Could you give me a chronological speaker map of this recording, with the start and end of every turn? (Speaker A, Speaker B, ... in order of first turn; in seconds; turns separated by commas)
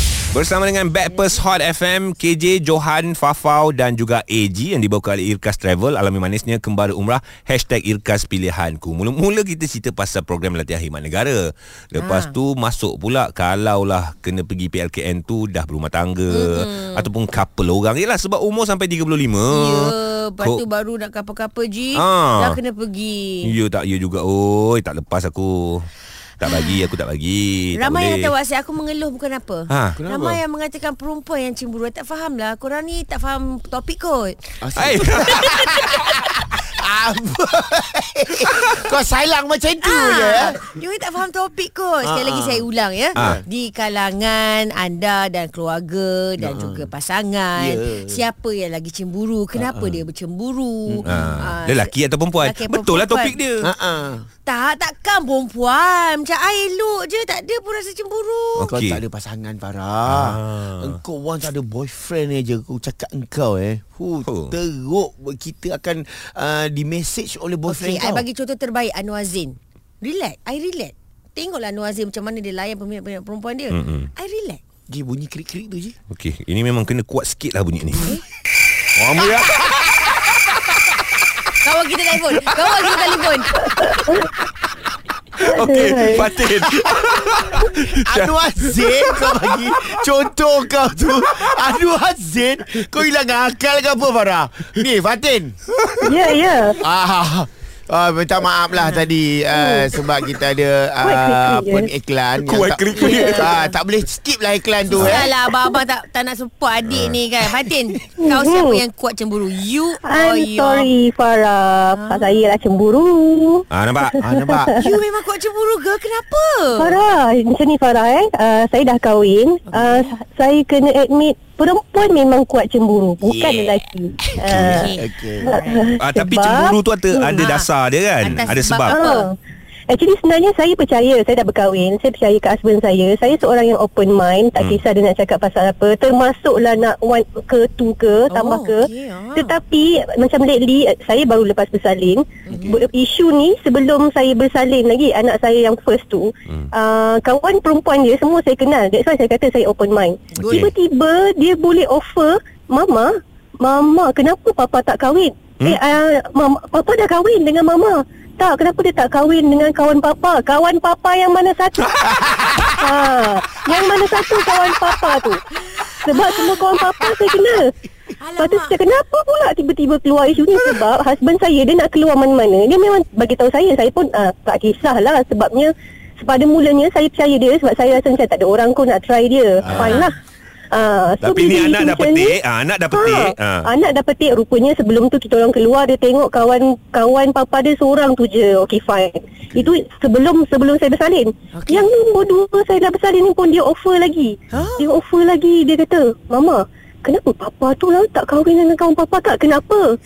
Speaker A: 0.3-20.6, Speaker B: 12.0-12.3, Speaker B: 16.3-17.1, Speaker B: 19.5-23.5, Speaker A: 21.9-22.6, Speaker A: 23.4-25.9, Speaker A: 26.4-28.3, Speaker B: 26.4-26.8, Speaker B: 27.8-34.5, Speaker A: 29.7-30.0, Speaker C: 30.0-30.4, Speaker C: 34.6-40.6, Speaker A: 34.8-35.9, Speaker B: 39.8-53.4, Speaker C: 42.0-43.4, Speaker C: 46.4-46.9, Speaker C: 47.5-48.2, Speaker C: 49.5-50.0, Speaker C: 50.9-51.4, Speaker A: 51.0-53.7, Speaker C: 53.6-54.3, Speaker B: 54.5-58.8, Speaker A: 58.6-59.0, Speaker C: 58.7-68.2, Speaker A: 60.1-61.0, Speaker A: 64.3-64.5, Speaker B: 67.7-74.6, Speaker A: 73.7-74.1, Speaker C: 74.9-75.9, Speaker A: 76.1-78.2, Speaker A: 79.0-79.6, Speaker C: 79.1-80.4, Speaker A: 80.4-80.8, Speaker B: 81.6-83.5, Speaker A: 82.6-83.0, Speaker A: 83.7-84.2, Speaker D: 83.8-84.2, Speaker A: 85.4-90.0, Speaker D: 85.4-86.3, Speaker C: 87.9-95.5, Speaker A: 95.8-96.2, Speaker D: 96.0-96.8, Speaker C: 96.8-105.3, Speaker D: 99.5-99.9, Speaker D: 101.0-101.9, Speaker A: 102.4-103.5, Speaker D: 103.0-103.3, Speaker B: 105.0-110.9, Speaker A: 106.8-107.2, Speaker D: 108.2-108.8, Speaker D: 110.0-114.9, Speaker B: 111.9-112.5, Speaker A: 113.7-114.2, Speaker C: 114.2-114.7, Speaker B: 114.8-117.0, Speaker D: 116.8-127.4, Speaker B: 119.7-120.0, Speaker B: 123.3-123.7, Speaker A: 124.4-124.8, Speaker B: 124.5-125.9, Speaker C: 125.0-125.5, Speaker A: 126.0-129.0, Speaker B: 127.3-127.7, Speaker B: 128.2-129.3, Speaker D: 128.9-129.3, Speaker D: 129.9-153.1, Speaker A: 134.6-134.8, Speaker B: 138.3-139.5, Speaker B: 142.5-142.7, Speaker C: 142.5-142.8, Speaker C: 150.4-150.7, Speaker D: 153.6-161.9, Speaker A: 161.9-162.8, Speaker C: 162.1-162.6, Speaker D: 162.8-165.4, Speaker B: 165.7-166.4, Speaker D: 166.0-167.7, Speaker B: 168.2-168.8, Speaker D: 168.4-180.2, Speaker C: 179.7-179.9, Speaker B: 179.8-180.1, Speaker D: 180.7-182.4, Speaker A: 181.2-183.7, Speaker D: 182.9-199.9, Speaker B: 191.6-191.9, Speaker B: 194.5-194.9